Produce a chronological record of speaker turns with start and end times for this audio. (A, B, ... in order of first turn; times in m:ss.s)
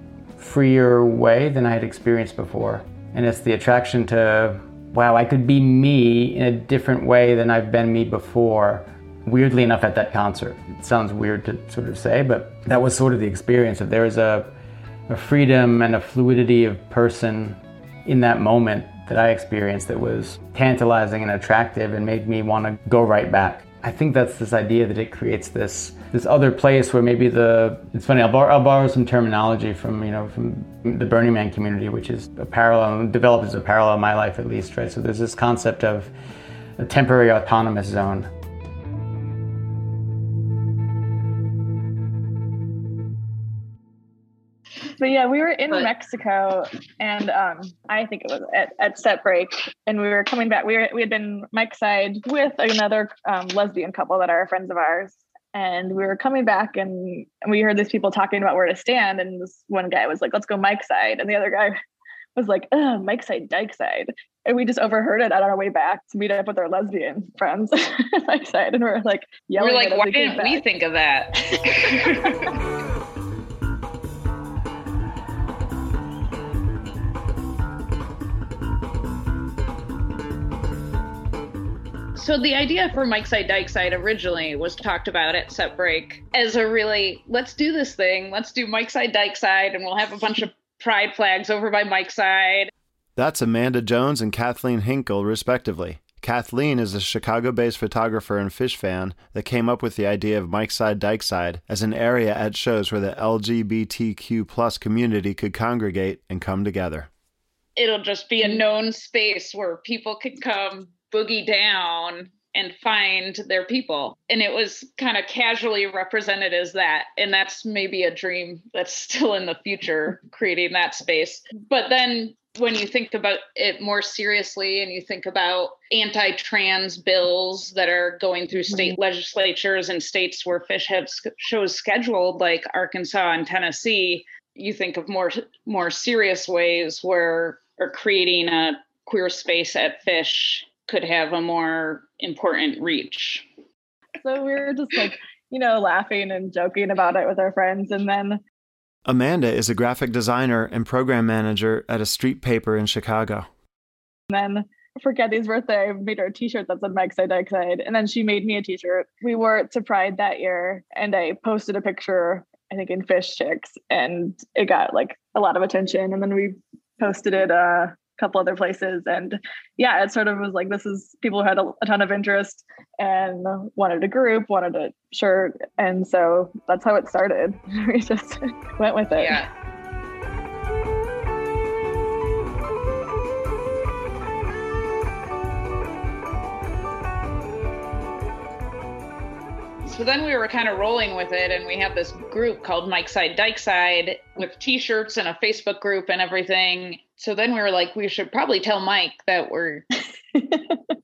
0:00.4-0:14.5 A
0:15.1-0:36.1 A
0:36.8-0:38.3 A
0:45.0-1:01.8 B
1:02.4-1:10.6 B
1:09.6-1:12.5 C
1:22.2-1:32.7 C
1:33.2-1:47.1 D
1:47.8-2:23.5 C
2:24.2-2:28.4 B
2:29.1-2:33.5 D
2:34.3-2:59.5 B
2:59.2-2:59.5 C
3:09.9-3:19.9 C
3:20.4-3:20.8 B